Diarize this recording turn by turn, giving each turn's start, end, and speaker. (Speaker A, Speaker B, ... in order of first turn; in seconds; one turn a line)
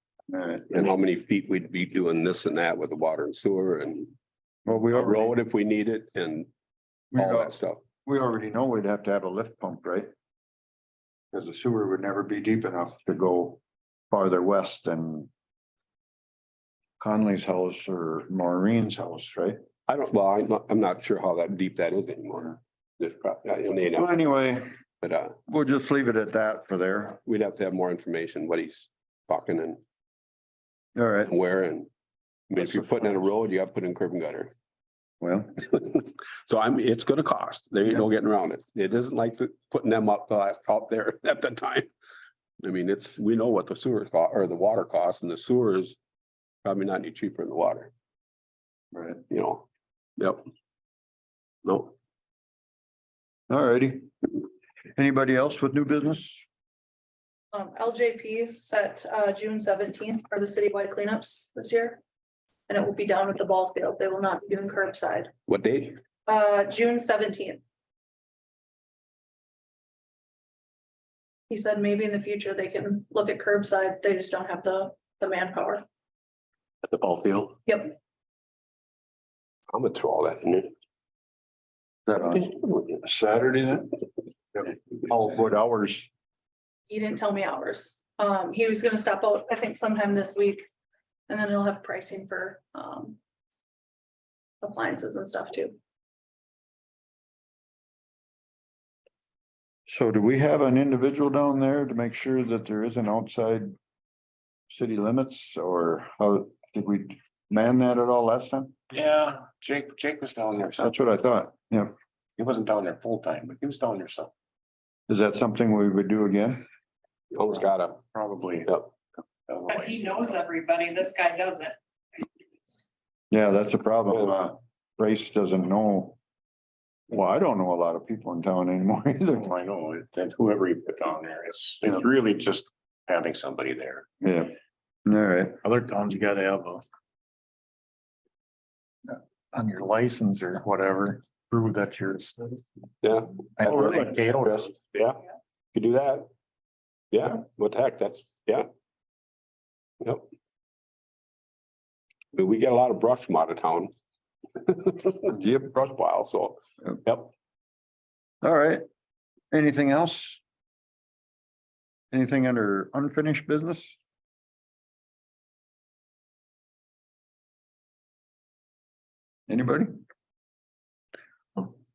Speaker A: 0.3-0.8
Speaker B: 0.7-4.1
Speaker A: 4.7-5.3
Speaker B: 4.9-6.5
Speaker A: 7.1-7.5
Speaker B: 7.2-7.8
Speaker A: 8.0-10.1
Speaker A: 11.3-15.3
Speaker A: 17.0-19.6
Speaker B: 19.9-24.1
Speaker A: 23.9-24.7
Speaker B: 25.0-25.4
Speaker A: 25.5-27.2
Speaker B: 27.2-29.8
Speaker A: 30.9-31.3
Speaker B: 31.2-31.9
Speaker B: 32.5-34.5
Speaker A: 35.2-35.5
Speaker B: 35.6-41.9
Speaker B: 42.6-46.0
Speaker B: 46.6-47.9
Speaker A: 48.9-49.2
Speaker B: 49.3-49.6
Speaker B: 51.6-51.9
Speaker A: 53.5-54.1
Speaker A: 55.0-56.5
Speaker C: 57.5-62.0
Speaker C: 62.7-65.3
Speaker B: 65.5-66.0
Speaker C: 66.3-67.6
Speaker C: 71.5-75.8
Speaker C: 77.7-77.9
Speaker B: 79.7-80.7
Speaker A: 82.1-82.5
Speaker B: 82.3-83.0
Speaker A: 83.0-83.9
Speaker A: 84.5-86.1
Speaker C: 86.9-90.6
Speaker C: 91.3-93.2
Speaker C: 94.6-95.8
Speaker A: 99.9-103.7
Speaker A: 104.7-108.7
Speaker D: 108.9-111.0
Speaker A: 110.8-111.9
Speaker D: 112.4-114.3
Speaker A: 115.1-116.6
Speaker B: 117.3-118.0
Speaker D: 118.1-118.8
Speaker D: 119.5-120.4
Speaker E: 119.7-121.8
Speaker A: 123.3-126.2
Speaker A: 127.1-129.5
Speaker D: 129.4-134.1
Speaker A: 134.2-135.6
Speaker F: 135.6-136.8
Speaker F: 139.5-142.4
Speaker B: 143.0-145.2
Speaker F: 143.6-144.7
Speaker A: 143.7-144.0
Speaker B: 145.7-146.3
Speaker B: 147.1-148.7
Speaker B: 150.0-150.3
Speaker B: 152.3-153.9
Speaker B: 154.6-157.3
Speaker A: 155.3-155.7
Speaker A: 158.4-158.8
Speaker A: 159.5-160.4
Speaker A: 162.1-164.0
Speaker A: 169.5-169.9